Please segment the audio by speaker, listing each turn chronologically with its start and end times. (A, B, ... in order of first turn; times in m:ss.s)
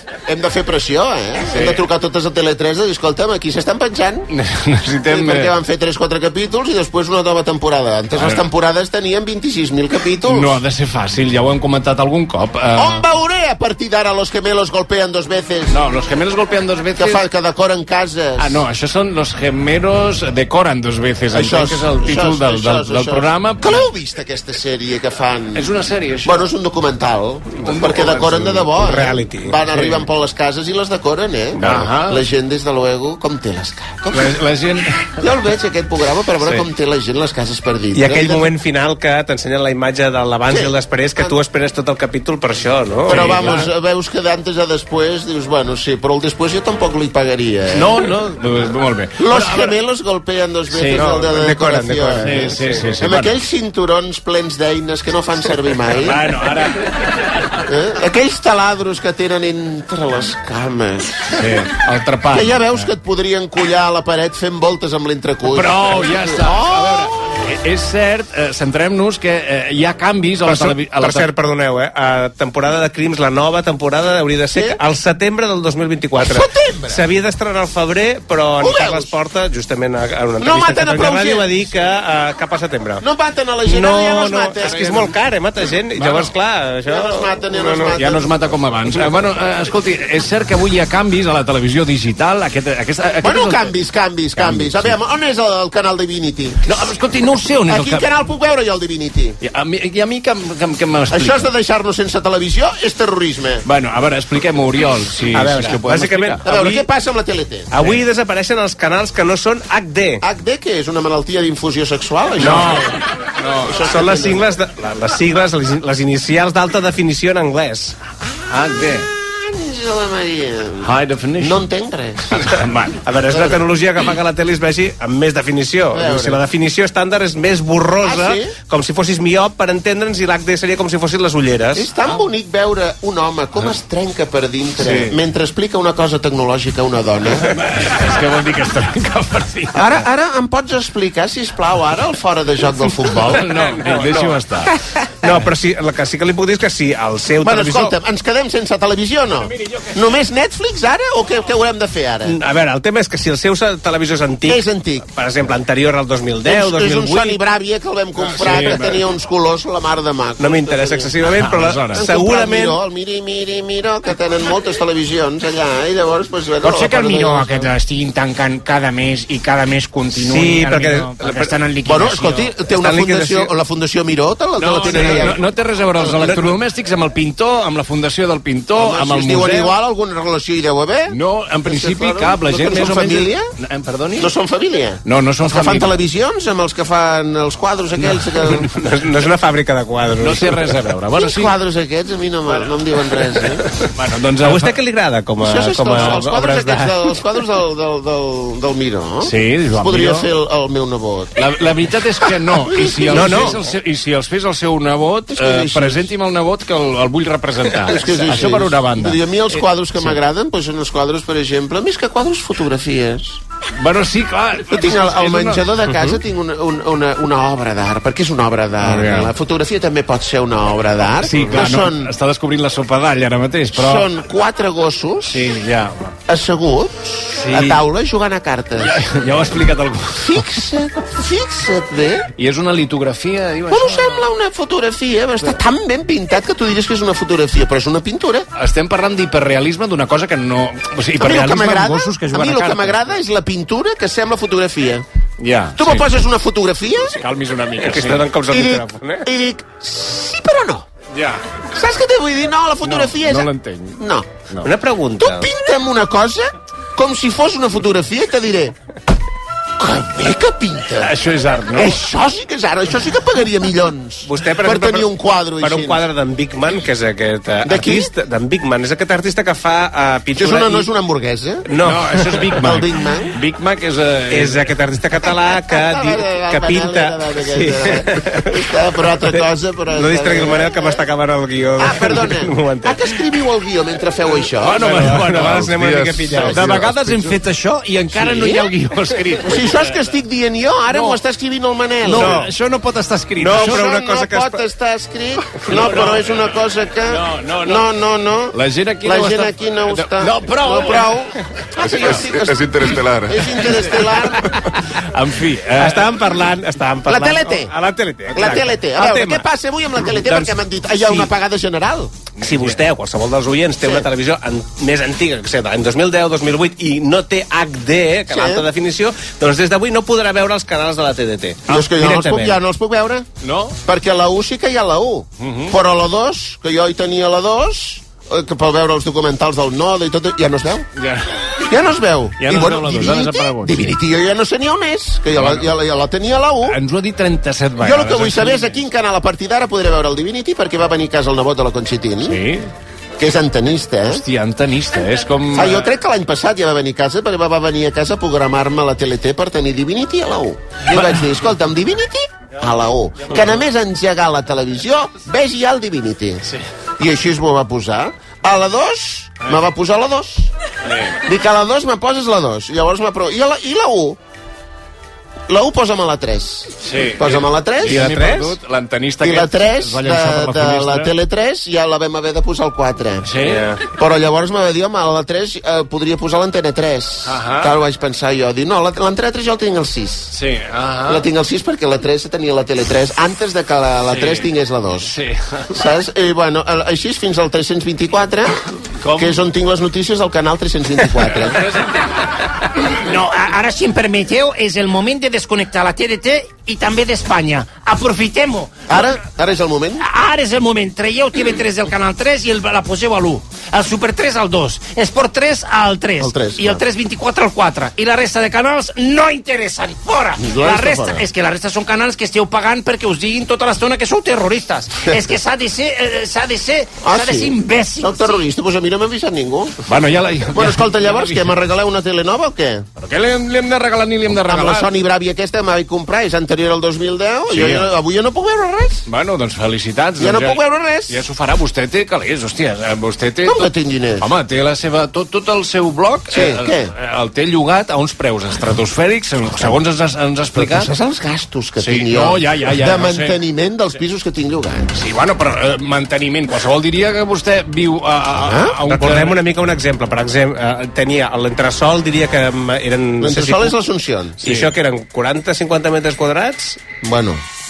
0:00.2-0:04.3 A
0:04.3-0:05.5 B
0:05.1-0:10.6 A
0:08.1-0:08.4 B
0:10.3-0:13.0 B
0:12.8-0:15.8 A
0:15.7-0:17.2 B
0:17.0-0:18.6 A
0:18.4-0:23.8 B
0:21.3-0:25.7 A
0:25.5-0:26.4 B
0:26.2-0:34.4 A
0:27.6-0:28.7 B
0:28.8-0:29.6 C
0:31.6-0:32.2 B
0:34.1-0:35.1 B
0:35.2-0:38.5 A
0:37.9-0:43.5 C
0:40.5-0:41.4 A
0:43.1-0:48.1 A
0:43.1-0:43.7 B
0:47.7-0:49.7 B
0:49.2-0:56.2 A
0:50.7-0:51.0 B
0:50.9-0:52.8 C
0:52.2-0:53.3 B
0:56.0-0:57.1 B
0:57.6-1:01.5 A
1:01.3-1:02.9 B
1:02.3-1:07.1 A
1:05.4-1:11.3 B
1:10.4-1:23.0 C
1:14.5-1:14.8 A
1:16.2-1:17.0 A
1:18.6-1:19.1 A
1:20.4-1:21.5 A
1:23.0-1:25.1 A
1:23.6-1:28.0 C
1:26.0-1:26.3 B
1:26.8-1:28.3 A
1:28.0-1:33.7 B
1:33.2-1:36.7 A
1:34.4-1:34.9 B
1:36.6-1:38.0 B
1:37.7-1:39.4 A
1:39.4-1:41.5 B
1:41.1-1:43.6 A
1:43.6-1:46.4 B
1:45.3-1:46.8 C
1:46.4-1:47.7 A
1:47.7-1:50.2 C
1:47.7-1:48.0 B
1:50.2-1:52.8 A
1:52.4-1:53.9 B
1:53.6-1:54.5 A
1:53.8-1:57.9 C
1:58.5-1:59.1 B
1:59.2-2:02.5 A
2:00.8-2:01.6 B
2:02.3-2:03.0 B
2:03.0-2:11.9 C
2:03.2-2:03.7 A
2:05.9-2:06.4 A
2:08.0-2:08.5 A
2:11.7-2:17.5 A
2:14.8-2:15.2 B
2:17.4-2:20.0 B
2:19.7-2:23.4 A
2:23.2-2:24.7 B
2:23.5-2:24.7 C
2:25.2-2:27.9 C
2:27.4-2:32.4 A
2:29.5-2:30.0 B
2:32.2-2:34.6 C
2:34.4-2:35.1 A
2:35.1-2:37.4 C
2:36.4-2:41.1 A
2:38.2-2:39.0 B
2:40.4-2:42.8 C
2:41.2-2:42.0 B
2:41.9-2:47.7 A
2:46.6-2:52.5 D
2:50.2-2:51.5 C
2:51.8-2:56.5 A
2:52.7-2:53.5 C
2:54.6-2:59.7 B
2:54.8-2:55.3 C
2:58.7-3:03.4 A
3:01.1-3:04.3 B
3:04.2-3:08.7 A
3:05.0-3:05.9 B
3:08.0-3:08.6 B
3:08.7-3:10.7 C
3:10.2-3:11.5 B
3:11.1-3:13.6 A
3:13.9-3:14.8 B
3:14.4-3:16.9 C
3:15.4-3:21.4 A
3:19.2-3:20.3 B
3:21.4-3:30.2 B
3:22.7-3:23.6 A
3:23.1-3:23.6 C
3:25.3-3:26.1 A
3:27.9-3:33.4 A
3:33.8-3:35.6 B
3:34.7-3:42.1 A
3:38.8-3:39.3 B
3:41.2-3:44.0 B
3:43.7-3:45.4 A
3:45.3-3:46.2 B
3:46.3-3:49.0 A
3:47.4-3:47.8 B
3:48.8-3:50.4 B
3:50.1-3:52.3 A
3:52.4-3:54.2 B
3:53.7-3:58.5 A
3:58.6-4:03.2 B
4:01.2-4:05.0 A
4:05.4-4:06.0 B
4:05.8-4:07.2 A
4:07.2-4:08.2 B
4:07.8-4:09.2 C
4:08.5-4:10.8 A
4:11.1-4:11.4 B
4:11.7-4:14.3 A
4:12.8-4:14.0 B
4:14.6-4:15.5 C
4:15.2-4:18.7 A
4:19.8-4:21.1 A
4:21.0-4:22.0 B
4:21.7-4:26.0 A
4:24.2-4:30.9 C
4:27.6-4:28.1 A
4:30.4-4:31.6 A
4:31.7-4:32.7 C
4:31.8-4:34.7 B
4:32.6-4:33.4 A
4:34.3-4:38.5 C
4:35.7-4:41.0 A
4:39.9-4:43.0 C
4:41.8-4:44.9 A
4:44.6-4:45.7 B
4:44.8-4:46.8 C
4:45.7-4:47.4 E
4:46.3-4:46.8 A
4:46.4-4:50.1 B
4:48.1-4:48.7 A
4:49.4-4:52.5 A
4:50.9-4:51.2 B
4:52.0-4:53.9 B
4:52.1-4:52.5 C
4:53.4-4:54.6 C
4:53.5-5:02.7 A
4:55.7-4:56.3 B
4:57.1-4:57.9 B
4:58.5-5:01.1 B
5:01.8-5:03.6 E
5:03.2-5:04.5 A
5:03.6-5:04.1 B
5:05.0-5:06.2 B
5:05.8-5:09.5 C
5:07.0-5:07.7 A
5:08.3-5:12.1 A
5:10.0-5:11.3 C
5:12.4-5:12.8 B
5:12.4-5:22.6 C
5:13.8-5:14.1 A
5:18.3-5:18.6 A
5:21.7-5:23.3 A
5:23.4-5:23.8 B
5:23.8-5:30.9 A
5:25.4-5:25.7 B
5:31.0-5:31.4 B
5:31.6-5:36.8 A
5:32.4-5:33.9 B
5:35.3-5:35.7 B
5:36.6-5:38.8 B
5:37.8-5:42.4 A
5:42.2-5:42.7 B
5:43.2-5:44.2 A
5:44.1-5:45.9 B
5:45.5-5:56.5 A
5:50.9-5:51.2 B
5:57.0-6:00.5 A
6:00.8-6:01.2 B
6:01.2-6:04.2 A
6:05.5-6:08.1 A
6:06.8-6:11.1 B
6:07.8-6:08.5 C
6:09.2-6:20.4 A
6:13.2-6:13.8 B
6:13.4-6:13.7 C
6:17.2-6:17.7 B
6:20.3-6:21.2 B
6:21.0-6:25.1 A
6:24.1-6:24.5 B
6:25.0-6:25.7 B
6:25.7-6:28.6 A
6:29.0-6:29.4 B
6:29.1-6:31.7 A
6:31.6-6:31.9 B
6:32.9-6:39.0 D
6:38.9-6:40.0 A
6:40.0-6:58.4 D
6:46.2-6:46.8 A
6:50.4-6:51.2 A
6:57.0-6:59.8 A
6:59.9-7:01.4 B
7:00.5-7:02.9 A
7:03.0-7:04.9 B
7:04.3-7:09.1 A
7:07.5-7:07.9 B
7:09.1-7:20.9 B
7:10.2-7:11.2 A
7:13.4-7:14.3 A
7:16.3-7:16.9 A
7:20.5-7:24.9 A
7:21.8-7:23.4 B
7:24.9-7:29.4 B
7:28.3-7:28.8 A
7:28.9-7:33.8 C
7:33.2-7:34.4 A
7:34.4-7:36.8 C
7:34.4-7:34.7 B
7:37.0-7:37.4 A